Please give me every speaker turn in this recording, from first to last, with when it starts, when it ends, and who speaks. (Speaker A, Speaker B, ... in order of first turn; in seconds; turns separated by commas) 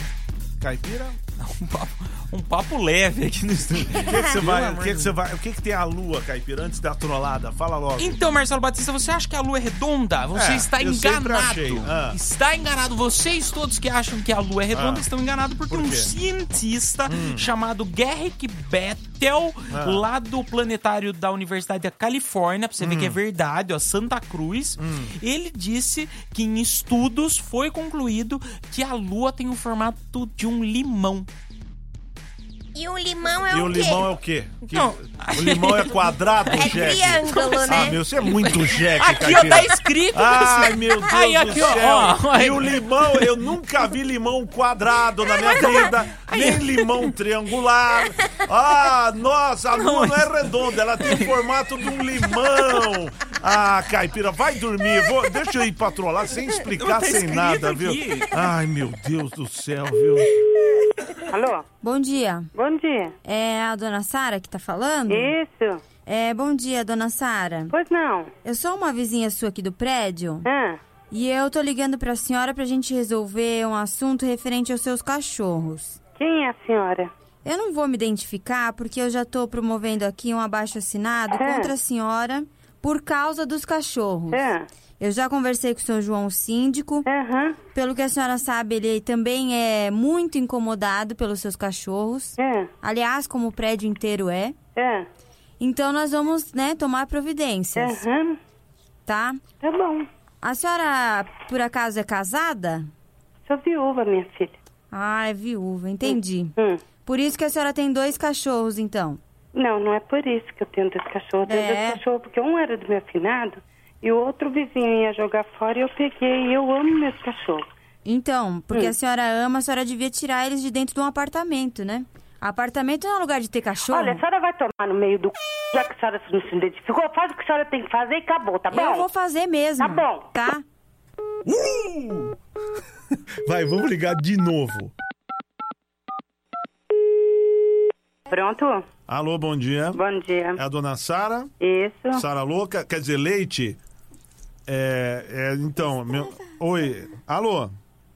Speaker A: 0.6-1.2, Speaker B: 1.4-5.2, Speaker A: 4.0-8.2, Speaker B: 8.0-31.3, Speaker A: 10.3-12.2, Speaker A: 14.7-15.1, Speaker A: 15.7-16.1, Speaker A: 17.1-17.4, Speaker A: 19.7-20.0, Speaker A: 22.8-23.2, Speaker A: 24.8-25.1, Speaker C: 32.7-34.1, Speaker A: 33.5-60.3, Speaker B: 34.7-36.0, Speaker B: 36.5-43.3, Speaker C: 36.5-38.0, Speaker B: 45.4-47.1, Speaker B: 49.8-51.3, Speaker B: 56.6-58.4, Speaker D: 61.3-61.6, Speaker E: 61.8-62.5, Speaker D: 62.5-63.1, Speaker E: 63.2-65.3, Speaker D: 65.1-65.8, Speaker E: 66.0-67.7, Speaker D: 67.7-68.3, Speaker E: 68.4-70.4, Speaker D: 70.4-70.8, Speaker E: 71.1-76.0, Speaker D: 76.2-77.1, Speaker E: 77.4-84.4, Speaker D: 81.3-81.7, Speaker D: 84.3-84.7, Speaker E: 85.0-87.1, Speaker D: 87.0-87.6, Speaker E: 87.7-94.5, Speaker D: 92.4-92.7, Speaker D: 94.8-95.0, Speaker E: 95.6-98.0, Speaker D: 97.8-98.3, Speaker E: 99.1-99.4, Speaker D: 99.6-100.1, Speaker E: 100.4-102.9, Speaker D: 103.5-104.5, Speaker E: 104.9-106.5, Speaker D: 106.0-106.8, Speaker E: 107.0-109.2, Speaker D: 109.5-117.6, Speaker E: 111.5-112.0, Speaker E: 118.0-124.2, Speaker D: 123.9-129.1, Speaker E: 128.7-130.6, Speaker D: 129.8-130.3, Speaker A: 131.4-132.3, Speaker A: 133.4-134.9, Speaker D: 138.3-138.8, Speaker A: 139.1-140.0, Speaker D: 139.9-140.6, Speaker A: 140.6-141.5, Speaker D: 141.6-142.2, Speaker A: 142.1-143.8, Speaker A: 144.7-147.7